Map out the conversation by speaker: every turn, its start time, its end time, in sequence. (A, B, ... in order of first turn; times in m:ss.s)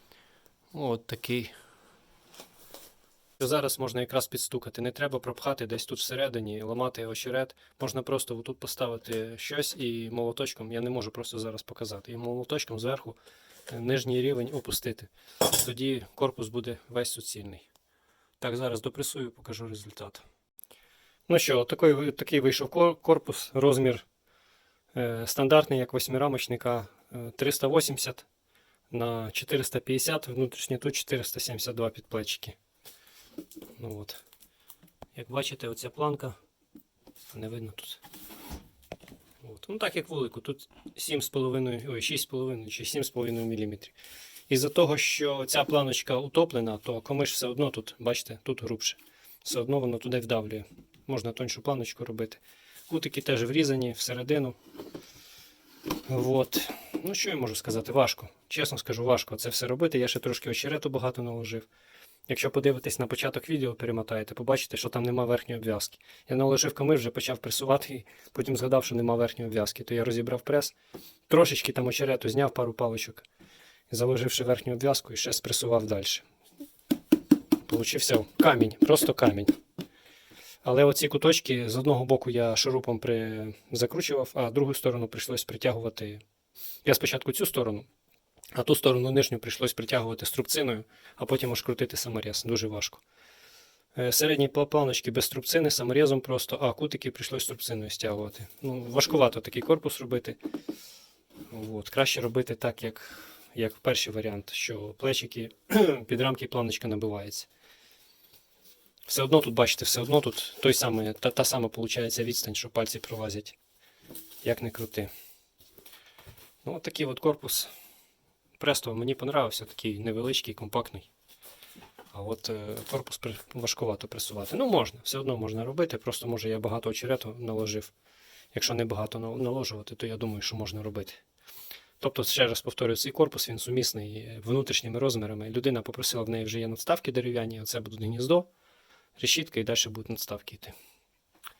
0:00.7-0:01.5 A
0:03.4-0:13.2 A
0:13.7-0:17.6 A
0:18.4-0:20.2 A
0:21.3-0:24.0 A
0:24.9-0:28.2 A
0:28.9-0:32.6 A
0:33.8-0:34.2 A
0:35.1-0:36.4 A
0:37.3-0:38.0 A
0:39.4-0:43.9 A
0:44.5-0:54.5 A
0:56.0-1:01.7 A
1:02.3-1:10.7 A
1:11.3-1:13.2 A
1:13.9-1:16.2 A
1:17.7-1:19.5 A
1:20.6-1:26.2 A
1:26.8-1:27.8 A
1:28.5-1:33.0 A
1:33.9-1:40.4 A
1:41.5-1:47.5 A
1:49.1-1:53.6 A
1:54.4-1:55.1 A
1:56.6-1:57.7 A
1:58.6-2:01.1 A
2:02.1-2:07.9 A
2:08.5-2:11.2 A
2:12.0-2:18.5 A
2:19.2-2:20.7 A